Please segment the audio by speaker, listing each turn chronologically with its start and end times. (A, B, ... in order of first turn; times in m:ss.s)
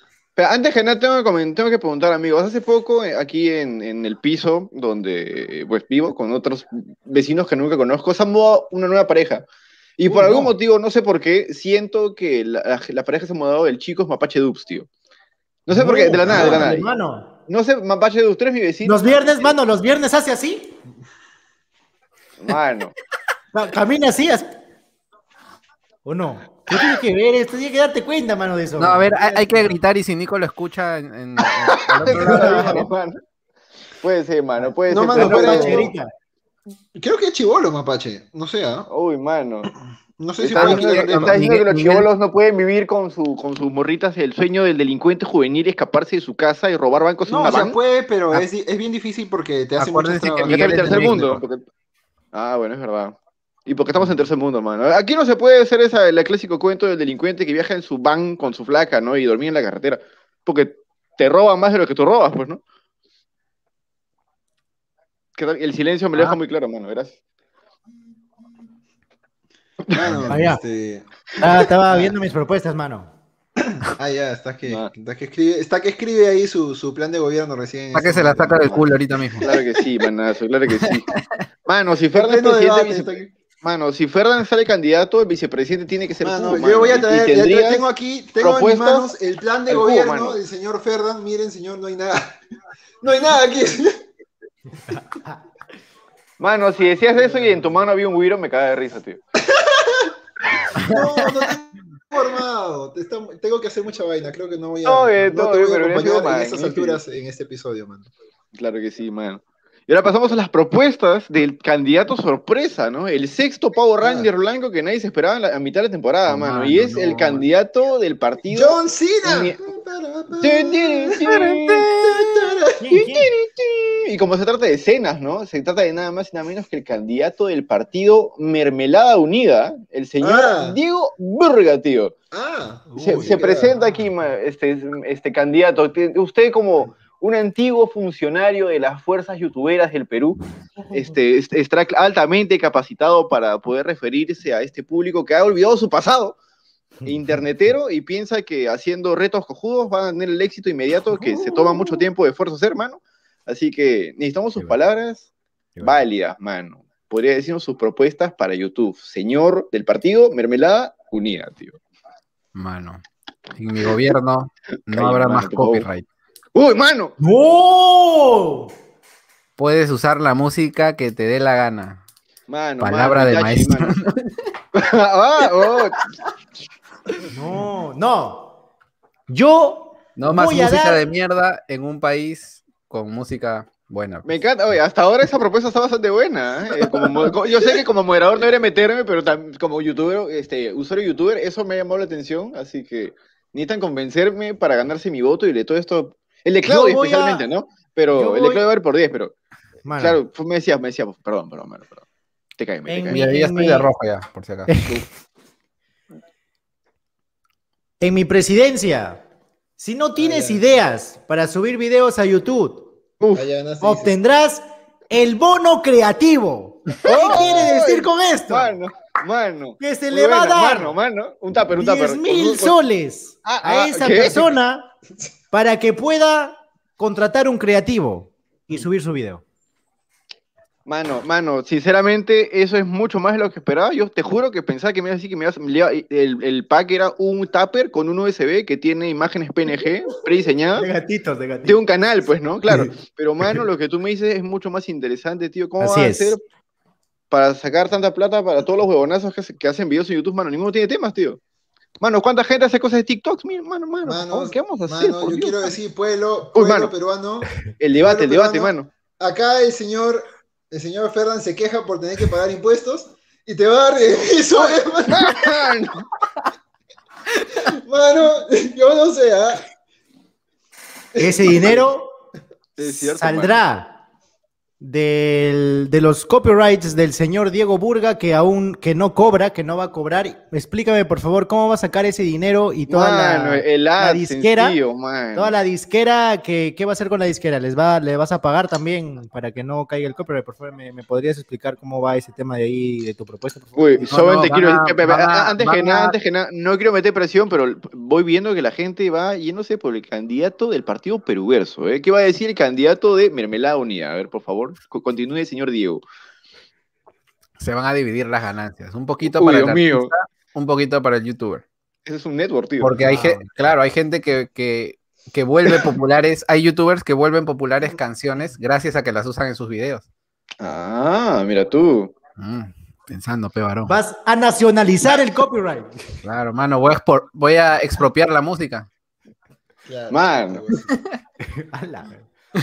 0:00.4-0:09.4 A
0:10.0-0:14.9 A
0:10.1-0:10.5 B
0:15.7-0:16.8 A
0:15.7-0:17.3 B
0:16.2-0:16.7 C
0:17.5-0:19.5 A
0:18.8-0:20.8 B
0:22.4-0:22.9 A
0:23.5-0:24.5 B
0:26.0-0:29.1 B
0:28.8-0:32.9 D
0:32.0-0:33.2 A
0:32.1-0:32.8 B
0:34.0-0:35.9 A
0:34.6-0:36.1 B
0:34.9-0:35.9 C
0:36.9-0:38.9 C
0:38.9-0:39.7 A
0:40.2-0:41.4 C
0:40.4-0:47.8 A
0:40.5-0:42.1 D
0:47.3-0:51.2 C
0:49.8-0:51.4 D
0:50.4-0:51.6 A
0:52.3-1:02.6 A
1:05.4-1:07.2 A
1:09.9-1:10.2 A
1:09.9-1:12.1 C
1:10.3-1:10.6 B
1:11.4-1:13.1 B
1:13.6-1:19.6 C
1:14.6-1:14.9 A
1:17.9-1:19.5 D
1:19.4-1:21.1 A
1:20.8-1:21.2 D
1:21.6-1:23.1 A
1:22.1-1:23.3 C
1:23.6-1:27.8 A
1:26.2-1:32.4 C
1:28.4-1:29.1 A
1:29.7-1:30.4 A
1:33.0-1:34.0 C
1:36.4-1:39.2 A
1:37.2-1:37.6 C
1:39.4-1:40.1 C
1:40.8-1:41.2 D
1:40.8-1:48.1 C
1:44.8-1:47.0 A
1:48.5-1:59.6 A
1:54.0-1:54.3 C
1:56.3-1:57.4 D
1:58.5-2:02.8 C
2:00.4-2:12.2 A
2:02.8-2:03.3 B
2:10.2-2:10.8 C
2:12.3-2:13.8 C
2:12.9-2:13.4 B
2:13.0-2:20.4 A
2:20.9-2:26.4 A
2:27.0-2:35.3 A
2:35.8-2:36.0 B
2:35.8-2:41.8 A
2:42.5-2:43.0 D
2:43.6-2:46.0 D
2:44.9-2:45.9 A
2:46.5-2:47.1 A
2:47.2-2:48.7 B
2:49.6-2:52.0 D
2:52.5-2:54.0 A
2:52.8-2:54.3 D
2:54.7-2:56.1 A
2:57.3-2:58.6 B
2:59.3-3:01.0 B
3:00.2-3:04.3 D
3:04.2-3:19.3 A
3:16.6-3:17.4 B
3:18.1-3:18.6 B
3:19.8-3:20.2 B
3:20.0-3:22.0 A
3:22.6-3:23.3 A
3:22.9-3:23.9 B
3:23.1-3:24.7 D
3:24.7-3:25.0 B
3:28.0-3:29.2 B
3:29.8-3:32.9 B
3:30.2-3:30.8 C
3:33.2-3:33.4 A
3:33.3-3:34.1 C
3:33.8-3:38.7 B
3:37.0-3:42.8 A
3:37.3-3:37.7 C
3:39.8-3:41.0 B
3:41.7-3:44.9 B
3:43.4-3:44.5 A
3:45.5-3:49.4 B
3:50.8-4:00.9 A
4:00.8-4:01.8 B
4:01.6-4:06.4 A
4:02.7-4:02.9 B
4:05.8-4:06.4 B
4:07.3-4:11.4 A
4:12.0-4:15.7 A
4:14.0-4:25.6 C
4:16.5-4:16.9 A
4:17.8-4:18.9 A
4:25.1-4:26.0 A
4:27.6-4:29.6 C
4:31.1-4:31.8 C
4:31.2-4:32.1 B
4:32.8-4:33.6 A
4:32.8-4:34.0 B
4:34.8-4:44.8 B
4:42.9-4:45.6 A
4:45.3-4:54.1 B
4:53.8-5:06.0 A
4:54.1-4:56.2 D
5:07.6-5:11.6 D
5:09.2-5:10.1 A
5:12.0-5:13.2 A
5:12.8-5:20.0 D
5:13.0-5:13.4 B
5:20.6-5:22.1 A
5:22.4-5:23.9 D
5:23.8-5:26.2 B
5:26.2-5:28.9 D
5:29.8-5:31.0 C
5:30.1-5:30.6 A
5:31.5-5:32.3 B